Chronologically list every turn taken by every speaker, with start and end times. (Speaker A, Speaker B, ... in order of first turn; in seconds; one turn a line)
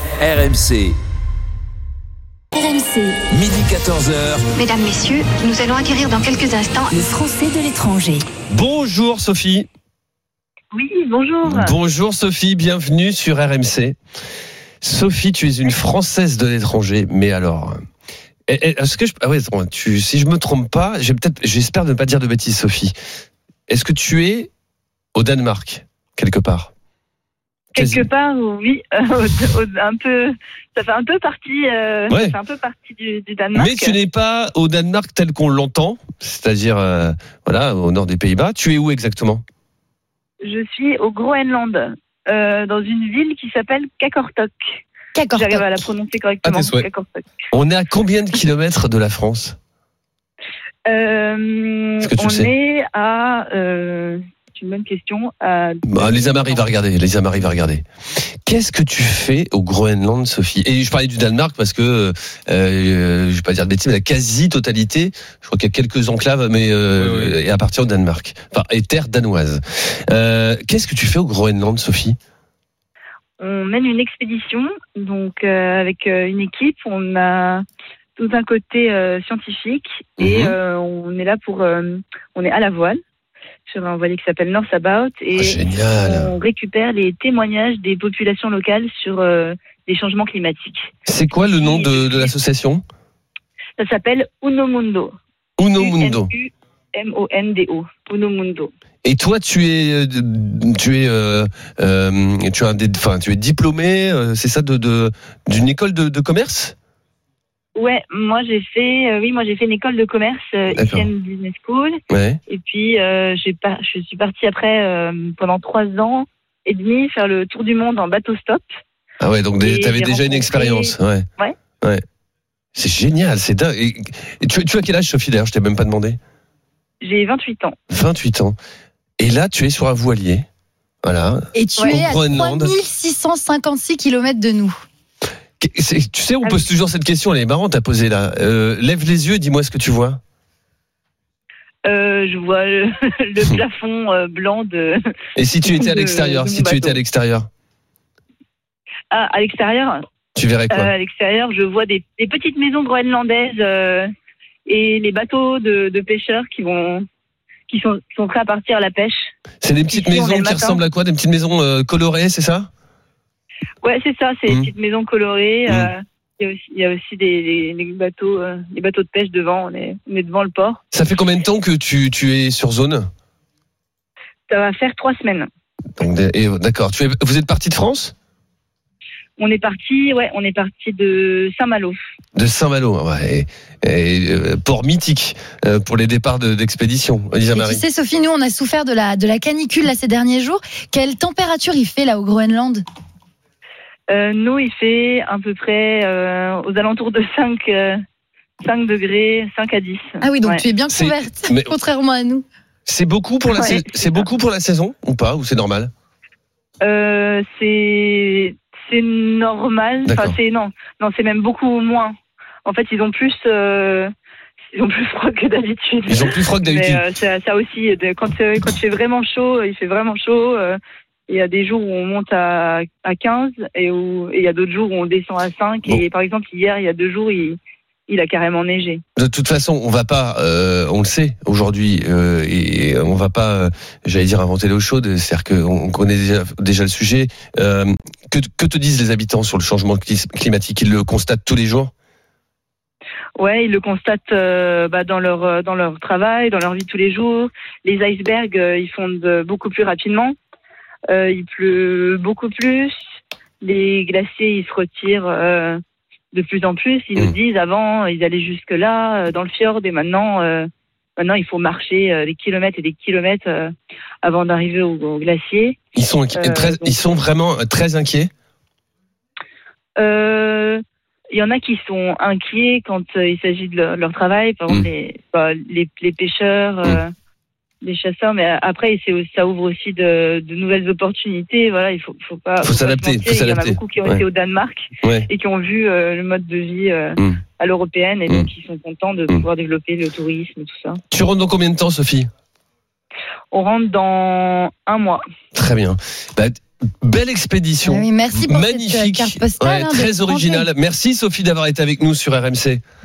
Speaker A: 0.2-0.9
Speaker B: 2.5-3.2
Speaker A: 3.3-4.5
Speaker C: 4.5-6.9
Speaker B: 6.9-8.2
Speaker D: 8.5-9.7
Speaker E: 10.7-11.7
Speaker D: 11.4-14.0
Speaker D: 14.8-17.8
Speaker D: 18.5-22.9
Speaker D: 23.7-24.5
Speaker D: 25.1-26.7
Speaker E: 27.7-34.0
Speaker D: 27.7-28.1
Speaker D: 32.1-32.4
Speaker D: 33.5-39.4
Speaker E: 40.4-44.8
Speaker F: 45.1-45.6
Speaker E: 45.3-47.3
Speaker D: 46.4-46.8
Speaker D: 47.5-49.6
Speaker E: 50.9-56.6
Speaker D: 52.0-52.5
Speaker D: 55.9-57.8
Speaker D: 58.4-72.2
Speaker A: 67.0-67.3
Speaker E: 73.4-77.6
Speaker E: 78.2-83.0
Speaker D: 80.2-80.6
Speaker E: 83.7-92.3
Speaker D: 85.3-86.3
Speaker D: 91.0-92.8
Speaker E: 93.8-95.1
Speaker D: 95.6-96.3
Speaker E: 95.8-98.7
Speaker D: 99.0-106.7
Speaker E: 107.7-118.7
Speaker D: 110.7-111.1
Speaker D: 112.1-112.4
Speaker D: 119.2-121.2
Speaker E: 119.6-121.5
Speaker D: 122.7-126.2
Speaker E: 127.0-127.8
Speaker D: 127.9-128.6
Speaker D: 129.2-130.4
Speaker D: 131.0-132.8
Speaker F: 131.5-134.7
Speaker E: 131.8-132.0
Speaker D: 135.6-140.2
Speaker E: 141.8-145.0
Speaker D: 145.3-147.5
Speaker E: 145.6-147.0
Speaker E: 149.1-150.0
Speaker D: 150.3-150.9
Speaker E: 150.7-154.1
Speaker E: 154.7-157.0
Speaker E: 157.7-159.3
Speaker D: 159.6-162.7
Speaker E: 159.9-160.8
Speaker E: 163.8-170.8
Speaker D: 165.7-165.9
Speaker D: 170.9-173.1
Speaker E: 174.5-175.5
Speaker D: 176.0-178.1
Speaker E: 179.4-182.0
Speaker D: 182.3-187.8
Speaker F: 187.5-192.8
Speaker E: 194.1-198.0
Speaker E: 198.6-200.6
Speaker F: 200.2-202.4
Speaker D: 200.9-201.7
Speaker D: 202.8-205.9
Speaker E: 203.5-204.2
Speaker E: 206.8-214.1
Speaker D: 210.1-210.4
Speaker E: 214.7-229.0
Speaker D: 216.1-217.0
Speaker D: 229.2-241.9
Speaker E: 243.4-250.3
Speaker E: 251.1-253.0
Speaker E: 253.6-255.8
Speaker E: 256.3-265.8
Speaker D: 265.9-268.3
Speaker E: 266.3-267.0
Speaker E: 270.0-277.1
Speaker E: 277.8-291.0
Speaker D: 282.6-284.2
Speaker D: 285.0-285.3
Speaker D: 291.1-292.3
Speaker E: 293.5-295.2
Speaker D: 295.5-302.8
Speaker F: 297.8-300.7